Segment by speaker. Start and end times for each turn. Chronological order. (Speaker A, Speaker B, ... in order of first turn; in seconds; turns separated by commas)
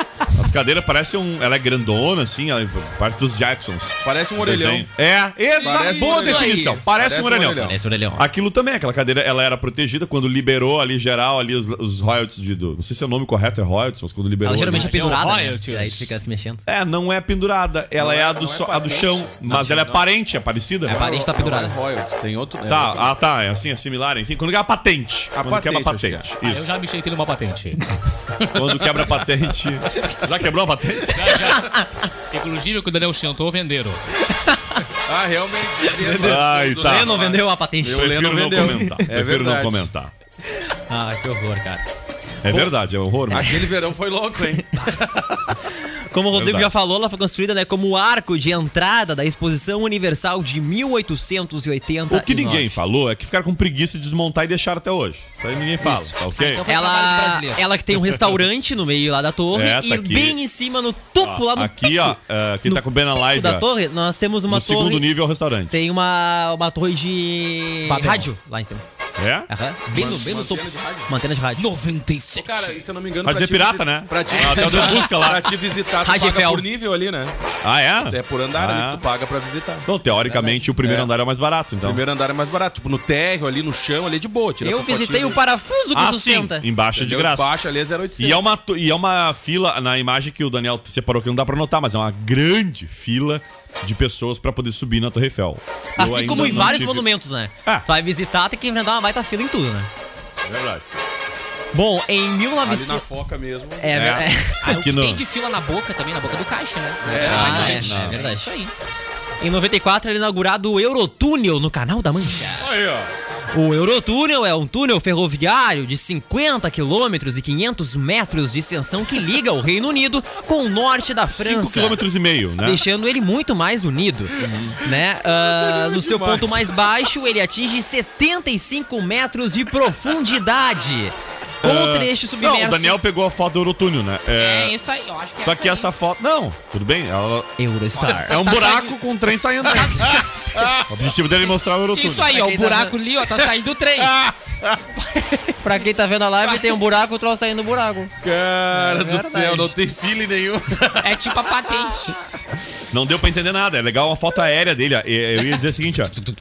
Speaker A: 0.3-15.2, Speaker B: 4.0-4.9, Speaker C: 5.6-6.8, Speaker B: 5.6-7.8, Speaker D: 7.6-8.3, Speaker D: 14.4-16.6, Speaker C: 14.7-16.2, Speaker A: 16.7-21.0, Speaker B: 18.0-20.0, Speaker D: 20.9-21.8, Speaker B: 20.9-23.1, Speaker A: 22.7-26.7, Speaker B: 25.4-26.3, Speaker C: 26.4-27.8, Speaker A: 28.5-31.6, Speaker C: 31.1-34.0, Speaker D: 34.3-34.8, Speaker B: 35.1-39.9, Speaker D: 36.1-39.0, Speaker A: 36.1-37.2, Speaker A: 37.9-40.1, Speaker D: 40.6-41.8, Speaker A: 42.4-43.6, Speaker B: 43.3-45.4, Speaker D: 46.1-52.8, Speaker A: 46.3-46.7, Speaker A: 52.1-56.6, Speaker D: 55.8-56.1, Speaker C: 56.4-57.6, Speaker D: 56.7-65.1, Speaker A: 58.0-58.5, Speaker A: 59.5-60.4, Speaker A: 61.2-63.7, Speaker A: 64.5-65.8, Speaker D: 65.7-68.8, Speaker C: 67.9-68.3, Speaker A: 69.2-70.2, Speaker D: 69.5-71.7, Speaker B: 69.9-71.1, Speaker C: 71.6-72.8, Speaker B: 72.4-77.3, Speaker A: 73.2-75.5, Speaker D: 74.4-75.0, Speaker D: 76.0-76.7, Speaker A: 77.6-79.0, Speaker B: 78.0-79.9, Speaker A: 79.8-82.0, Speaker D: 80.2-80.7, Speaker B: 80.8-81.1, Speaker B: 81.8-85.4, Speaker D: 84.6-86.7, Speaker A: 85.9-87.5, Speaker B: 87.0-88.5, Speaker A: 88.2-97.1, Speaker D: 96.0-99.9, Speaker A: 100.4-100.8, Speaker D: 101.7-103.0, Speaker B: 102.6-103.9, Speaker D: 103.8-104.8, Speaker A: 103.9-105.2, Speaker C: 104.6-108.7, Speaker B: 107.0-107.8, Speaker A: 107.2-108.2, Speaker D: 107.2-108.5, Speaker D: 109.4-112.7, Speaker B: 112.6-113.1, Speaker D: 113.5-122.0, Speaker A: 121.3-122.8, Speaker D: 122.6-133.0, Speaker A: 124.4-124.8, Speaker B: 125.4-126.7, Speaker A: 131.6-134.8, Speaker C: 134.4-135.9, Speaker A: 135.4-142.4, Speaker D: 137.6-138.5, Speaker C: 138.0-139.0, Speaker C: 139.6-140.7, Speaker C: 141.9-144.3, Speaker D: 142.3-143.0, Speaker C: 144.9-145.7, Speaker D: 145.6-148.1, Speaker C: 146.4-146.8, Speaker B: 148.2-151.2, Speaker D: 148.7-149.7, Speaker C: 151.0-152.2, Speaker A: 152.9-156.1